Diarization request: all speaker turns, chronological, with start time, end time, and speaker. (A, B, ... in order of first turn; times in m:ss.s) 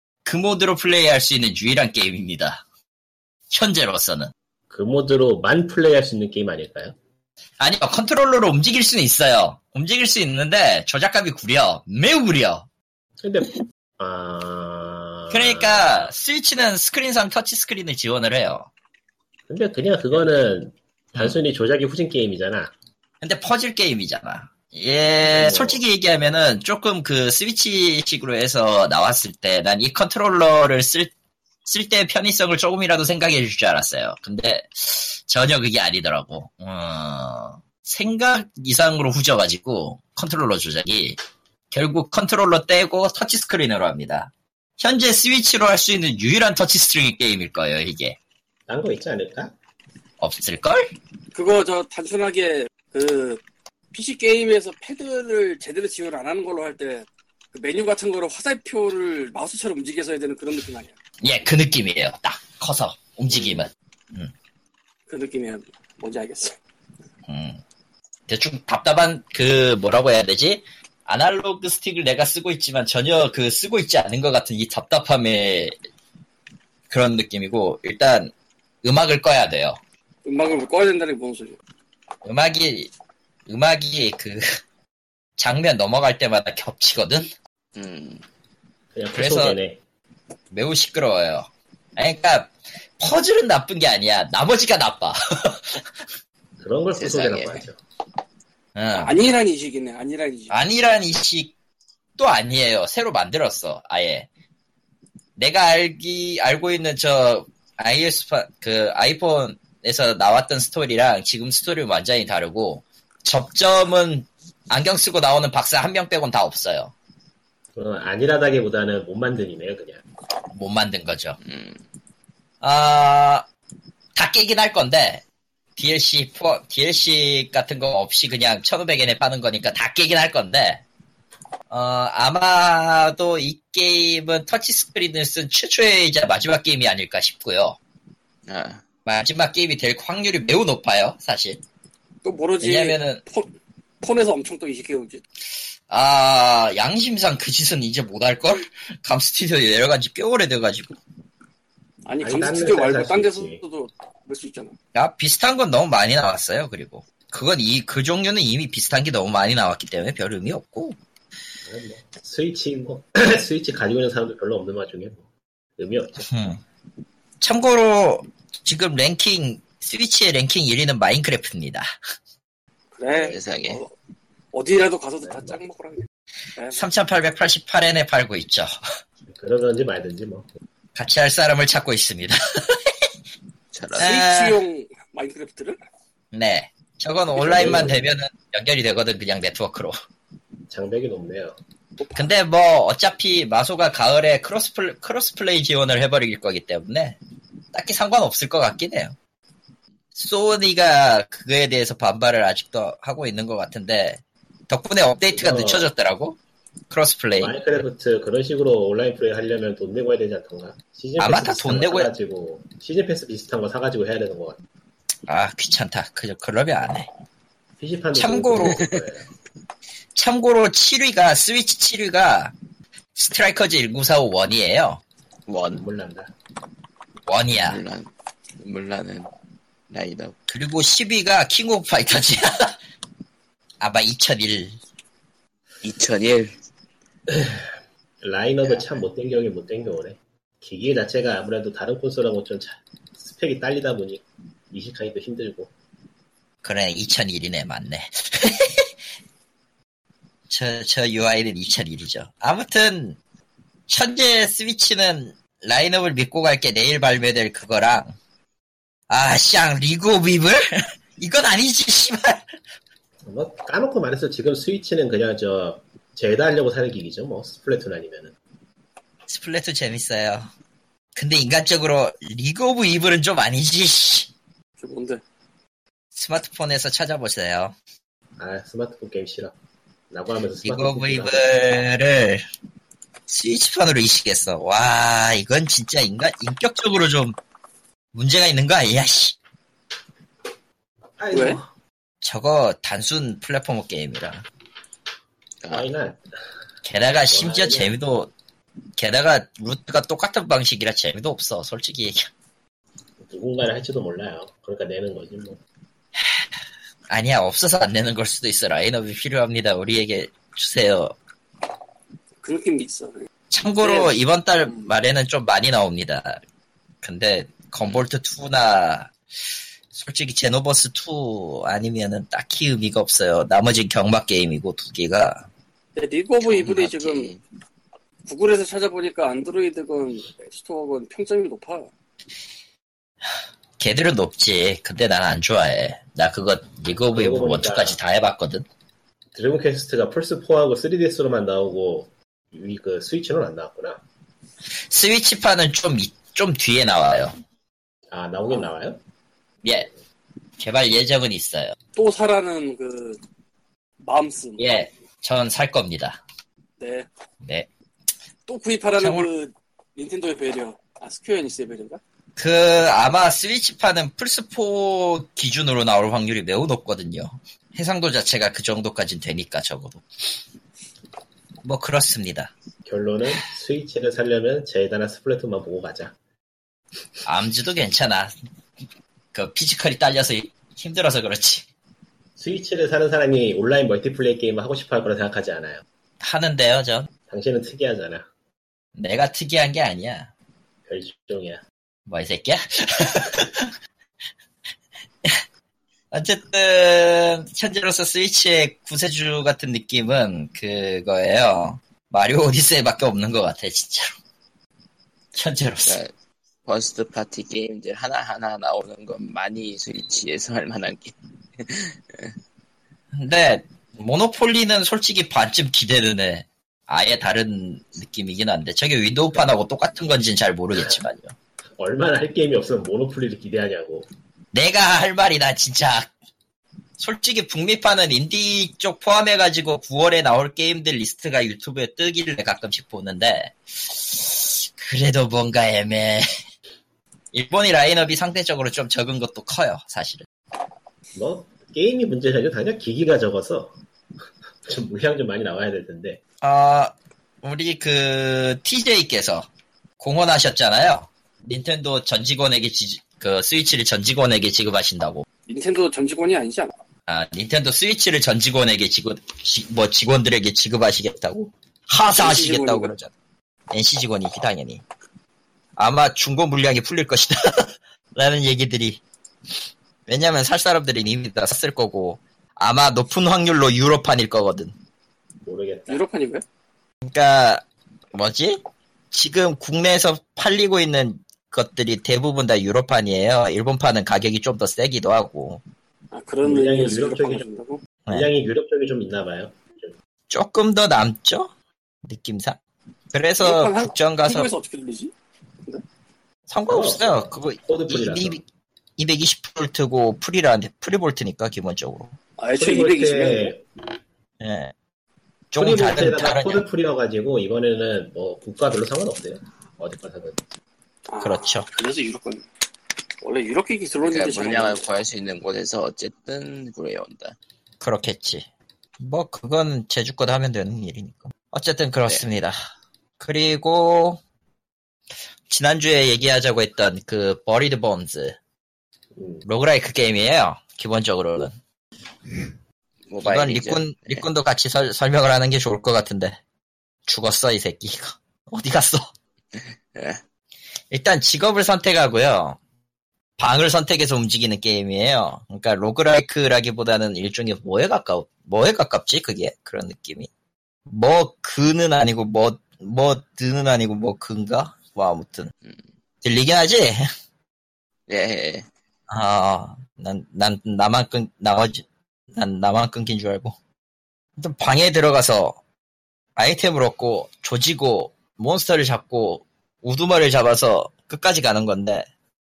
0:00.2-0:02.6 A
0:03.5-0:04.3 A
0:04.7-0:06.9 B
0:07.6-0:12.7 A
0:13.2-0:16.0 B
0:15.3-0:18.7 A
0:19.5-0:22.7 B
0:23.2-0:31.1 A
0:25.2-0:25.8 B
0:31.6-0:41.2 A
0:41.7-0:48.2 A
0:48.7-0:49.5 B
0:50.2-0:50.8 A
0:51.3-1:00.9 C
1:01.2-1:04.3 A
1:05.1-1:06.6 C
1:07.3-1:07.6 A
1:08.3-1:15.8 A
1:16.9-1:18.3 A
1:18.8-1:19.8 A
1:20.2-1:21.6 C
1:22.2-1:22.9 A
1:23.5-1:24.6 A
1:25.4-1:27.3 A
1:27.8-1:28.2 D
1:28.9-1:29.8 B
1:29.1-1:29.6 A
1:30.5-1:35.8 A
1:36.6-1:37.8 B
1:36.9-1:37.6 D
1:38.7-1:39.2 A
1:38.9-1:40.6 C
1:40.5-1:41.5 A
1:42.2-1:44.3 A
1:45.4-1:56.9 A
1:57.8-2:00.0 B
2:00.5-2:01.4 A
2:01.4-2:01.8 D
2:02.6-2:03.4 A
2:04.1-2:05.2 A
2:05.8-2:10.8 A
2:11.7-2:17.8 A
2:18.5-2:18.8 D
2:19.0-2:21.6 A
2:22.2-2:23.5 C
2:22.6-2:23.2 A
2:24.0-2:25.2 C
2:25.9-2:31.0 A
2:32.0-2:34.7 C
2:32.2-2:33.6 B
2:34.9-2:41.0 A
2:41.6-2:45.2 B
2:45.8-2:46.3 B
2:46.3-2:46.6 A
2:47.4-2:51.9 A
2:53.0-2:53.9 C
2:53.1-2:53.8 D
2:54.5-2:56.9 C
2:55.2-2:55.6 B
2:56.7-2:58.8 A
2:59.3-3:00.4 B
3:00.9-3:03.1 A
3:03.7-3:04.2 D
3:04.0-3:04.6 A
3:04.0-3:05.8 C
3:06.3-3:09.9 A
3:07.3-3:08.0 B
3:10.7-3:11.5 B
3:12.0-3:12.3 C
3:12.1-3:17.2 A
3:17.7-3:19.1 A
3:20.1-3:26.4 A
3:25.3-3:25.9 B
3:26.9-3:27.6 A
3:27.4-3:34.6 B
3:31.2-3:32.1 A
3:35.3-3:37.1 A
3:37.8-3:39.2 B
3:38.1-3:38.8 A
3:38.6-3:39.0 D
3:40.1-3:42.5 A
3:43.1-3:45.0 A
3:45.5-3:45.8 D
3:45.7-3:46.3 B
3:47.2-3:47.8 A
3:47.6-3:48.1 D
3:48.6-3:49.3 D
3:49.9-3:50.3 D
3:50.5-3:52.8 A
3:53.8-3:54.8 A
3:55.8-3:56.5 D
3:57.3-3:57.6 B
3:58.2-4:05.7 B
4:06.6-4:08.9 A
4:10.5-4:13.2 A
4:13.9-4:18.1 A
4:19.1-4:22.4 A
4:23.2-4:28.3 B
4:29.3-4:30.5 A
4:31.1-4:34.3 A
4:34.8-4:35.2 C
4:36.2-4:37.7 A
4:38.4-4:39.5 B
4:40.1-4:41.5 B
4:40.6-4:42.4 A
4:43.3-4:47.4 A
4:48.1-4:49.4 A
4:51.2-4:51.6 B
4:51.3-4:51.6 C
4:52.2-4:54.4 A
4:55.6-4:55.9 D
4:55.7-4:56.2 B
4:56.8-4:58.3 A
4:57.3-4:58.0 B
4:59.0-5:02.3 A
5:03.2-5:05.6 B
5:06.2-5:06.4 A
5:07.1-5:11.1 A
5:12.4-5:13.3 C
5:13.5-5:16.4 A
5:13.8-5:14.2 C
5:17.0-5:19.1 A
5:19.9-5:25.5 A
5:26.0-5:27.3 C
5:26.4-5:27.4 D
5:28.2-5:31.9 C
5:33.8-5:38.6 A
5:37.1-5:38.0 B
5:39.3-5:44.0 B
5:44.9-5:47.3 A
5:48.1-5:49.0 B
5:49.6-5:49.9 A
5:50.6-5:51.7 A
5:51.9-5:53.2 C
5:54.0-5:54.7 C
5:54.6-5:56.2 A
5:56.8-5:57.1 C
5:58.5-6:02.0 C
5:59.0-5:59.3 A
6:02.4-6:10.0 A
6:11.6-6:12.5 A
6:12.8-6:16.1 B
6:17.2-6:18.3 A
6:19.3-6:21.6 A
6:22.4-6:25.8 B
6:26.2-6:27.1 A
6:27.3-6:28.2 B
6:29.0-6:30.3 A
6:30.9-6:31.6 B
6:32.1-6:33.7 A
6:36.1-6:44.1 A
6:45.3-6:46.0 A
6:45.8-6:46.1 D
6:46.6-6:52.3 D
6:53.1-7:01.3 A
7:01.8-7:04.1 B
7:04.5-7:06.1 A
7:07.0-7:16.2 A
7:17.3-7:20.2 A
7:21.1-7:23.7 B
7:24.6-7:26.2 B
7:26.4-7:29.5 A
7:30.0-7:35.2 A
7:35.5-7:36.7 C
7:37.1-7:43.1 A
7:42.1-7:42.9 C
7:43.7-7:44.8 A
7:45.8-7:49.0 A
7:50.1-7:54.7 A
7:55.4-7:56.0 B
7:55.9-7:56.4 C
7:57.0-7:57.6 A
7:58.1-7:58.6 A
7:59.1-8:05.6 A
8:06.1-8:07.8 C
8:06.4-8:07.4 B
8:08.1-8:09.9 B
8:10.3-8:11.5 A
8:12.0-8:12.6 A
8:13.1-8:14.5 A
8:13.4-8:15.1 C
8:16.5-8:18.4 A
8:16.7-8:18.4 B
8:19.0-8:22.1 A
8:22.4-8:23.5 C
8:22.6-8:23.6 B
8:24.4-8:24.7 A
8:25.5-8:26.6 A
8:25.6-8:30.4 B
8:31.1-8:32.4 C
8:31.2-8:31.7 A
8:33.2-8:34.9 C
8:34.1-8:37.4 D
8:37.8-8:38.4 A
8:39.0-8:42.6 A
8:43.2-8:44.2 A
8:45.5-8:48.4 A
8:49.2-8:49.4 B
8:49.4-8:51.5 A
8:53.1-8:54.3 D
8:53.2-8:56.4 A
8:57.1-8:59.1 A
8:59.5-9:00.2 D
9:00.9-9:02.6 A
9:03.4-9:10.3 A
9:10.9-9:15.5 A
9:16.2-9:17.1 A
9:18.1-9:18.7 D
9:19.1-9:23.5 A
9:24.4-9:25.6 A
9:26.4-9:32.1 A